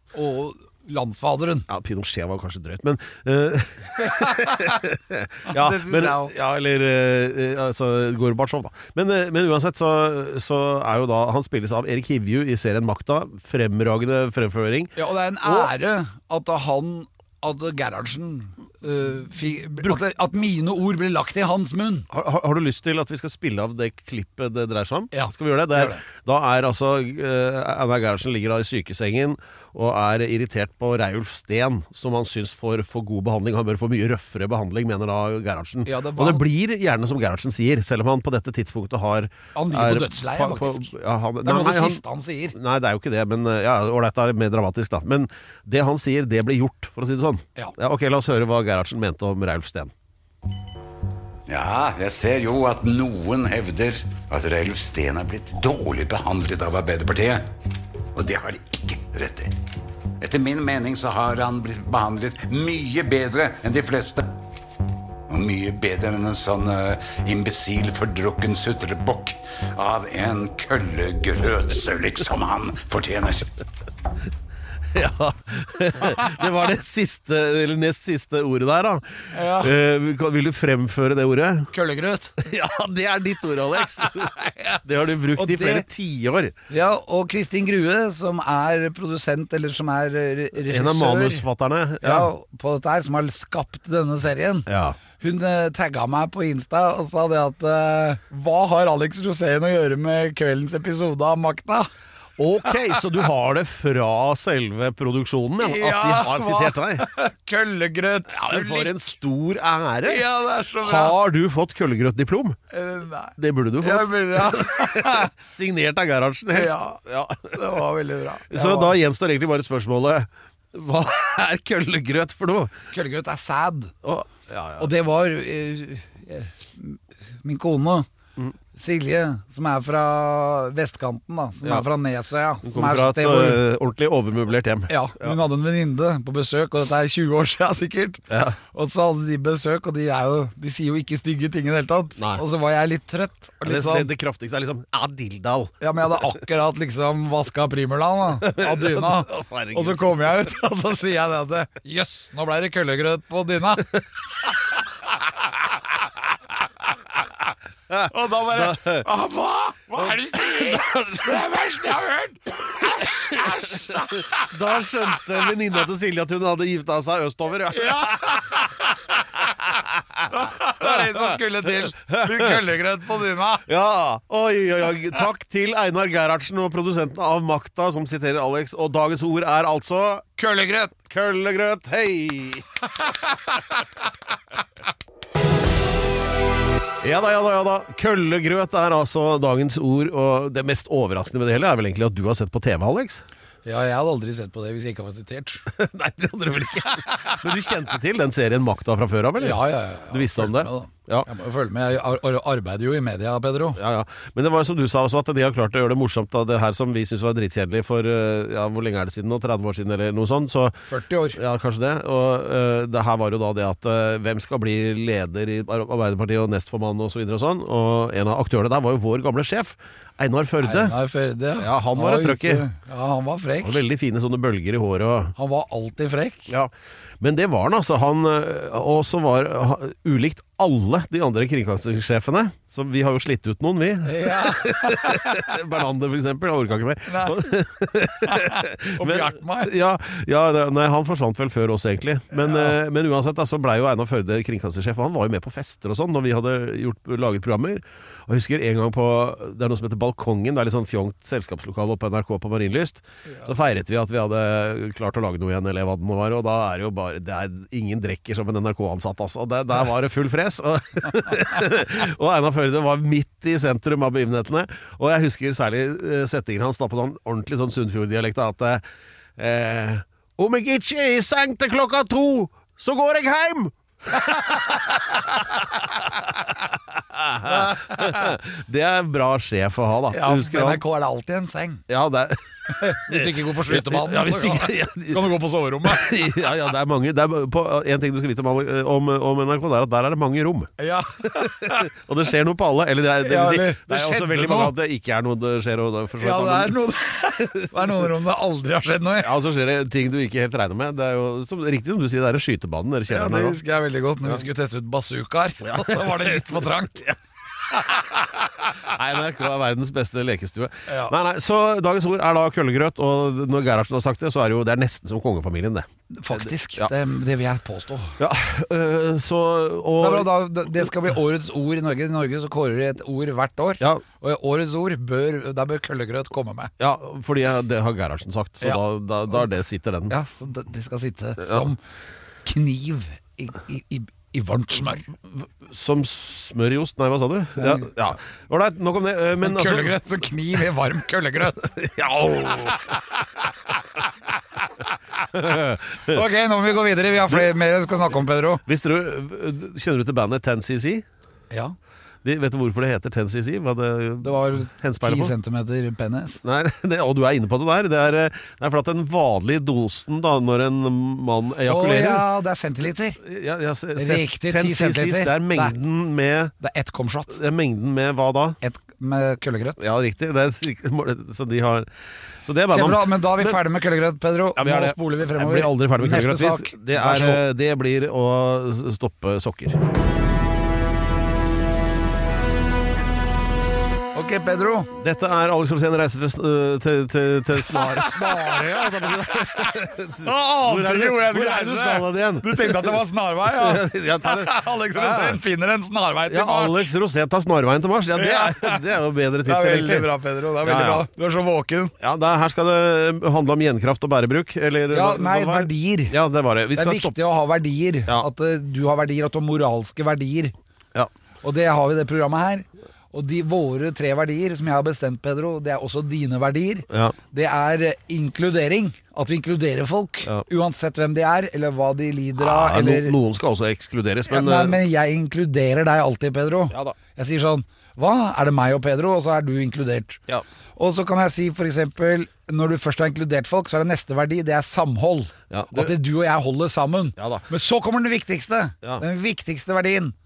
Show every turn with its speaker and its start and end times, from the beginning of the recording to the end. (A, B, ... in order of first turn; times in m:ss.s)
0:00.1-0:01.7 A
0:01.7-0:15.7 B
0:04.0-0:04.8 A
0:05.5-0:06.3 A
0:15.0-0:22.1 A
0:22.1-0:42.0 B
0:25.1-0:26.0 A
0:35.9-0:36.4 A
0:39.6-0:42.6 A
0:42.5-0:49.9 B
0:51.5-0:57.5 C
0:58.2-0:59.5 C
1:00.2-1:04.3 C
1:05.3-1:13.6 C
1:14.9-1:21.7 B
1:19.3-1:19.7 A
1:21.7-1:22.5 A
1:22.4-1:26.6 B
1:24.0-1:25.8 A
1:26.7-1:31.4 A
1:30.6-1:32.3 B
1:32.0-1:41.9 A
1:34.7-1:35.0 B
1:42.4-1:47.1 B
1:42.6-1:43.0 A
1:45.6-1:49.1 A
1:48.3-1:50.2 B
1:50.0-1:51.2 A
1:50.8-1:52.6 B
1:52.7-1:55.3 A
1:53.4-1:57.8 B
1:56.5-1:57.0 A
1:57.5-1:59.0 A
1:58.5-2:02.8 B
2:02.9-2:03.9 A
2:04.0-2:04.9 B
2:04.8-2:08.1 A
2:08.7-2:13.6 A
2:12.6-2:15.4 B
2:14.9-2:24.1 A
2:18.3-2:18.6 B
2:23.6-2:26.3 B
2:25.8-2:34.0 A
2:28.4-2:30.1 B
2:37.9-2:39.1 B
2:38.0-2:44.6 A
2:40.0-2:41.5 B
2:43.0-2:48.6 B
2:47.7-2:48.9 A
2:50.3-2:53.7 A
2:50.8-2:52.6 B
2:53.7-3:00.3 B
3:00.4-3:01.0 A
3:01.1-3:02.7 B
3:07.0-3:13.2 B
3:13.6-3:15.7 A
3:15.7-3:21.3 B
3:17.0-3:17.4 A
3:19.4-3:23.8 A
3:23.8-3:30.8 B
3:30.9-3:31.4 A
3:31.3-3:41.0 B
3:40.6-3:43.8 A
3:41.6-3:42.6 B
3:43.6-3:45.4 B
3:45.4-3:46.5 A
3:46.5-4:28.8 B
3:54.0-3:55.6 A
3:57.1-3:57.4 A
3:58.2-3:59.7 A
4:02.4-4:02.8 A
4:29.4-4:40.8 B
4:34.4-4:34.8 A
4:37.4-4:38.4 A
4:40.1-4:41.8 A
4:41.9-4:45.2 B
4:42.7-4:46.2 A
4:45.8-4:50.7 B
4:50.8-4:51.9 A
4:51.2-4:56.8 B
4:53.2-4:54.7 A
4:56.2-4:59.3 A
4:57.3-4:58.1 B
4:59.2-5:03.6 B
5:03.1-5:07.1 A
5:05.6-5:07.2 B
5:07.7-5:16.9 B
5:10.9-5:11.1 A
5:16.1-5:18.2 A
5:18.2-5:20.3 B
5:20.0-5:26.7 A
5:26.8-5:30.2 B
5:28.6-5:29.5 A
5:30.1-5:31.8 A
5:32.4-5:35.1 A
5:35.3-5:40.0 B
5:37.6-5:37.9 A
5:39.4-5:41.7 A
5:41.6-5:43.0 B
5:45.1-5:46.2 B
5:46.1-5:48.6 A
5:48.7-5:51.0 B
5:52.2-5:55.3 B
5:54.2-5:56.4 A
5:56.4-6:02.3 B
6:01.6-6:03.2 A
6:03.2-6:06.5 B
6:04.0-6:05.8 A
6:06.6-6:07.4 A
6:07.3-6:08.6 B
6:08.6-6:09.8 A
6:09.8-6:11.9 B
6:12.4-6:13.6 B
6:12.7-6:17.4 A
6:14.6-6:19.8 B
6:24.1-6:24.9 A
6:25.0-6:35.4 B
6:27.6-6:36.9 A
6:36.3-6:40.1 B
6:38.2-6:38.9 A
6:39.4-6:42.0 A
6:40.6-6:41.1 B
6:42.0-6:47.2 B
6:44.9-6:46.2 A
6:46.7-6:50.5 A
6:51.4-7:03.2 A
6:56.9-6:57.2 B
7:02.4-7:04.8 B
7:04.3-7:10.2 A
7:06.7-7:07.0 B
7:10.8-7:20.1 A
7:15.5-7:15.9 B
7:17.2-7:17.4 B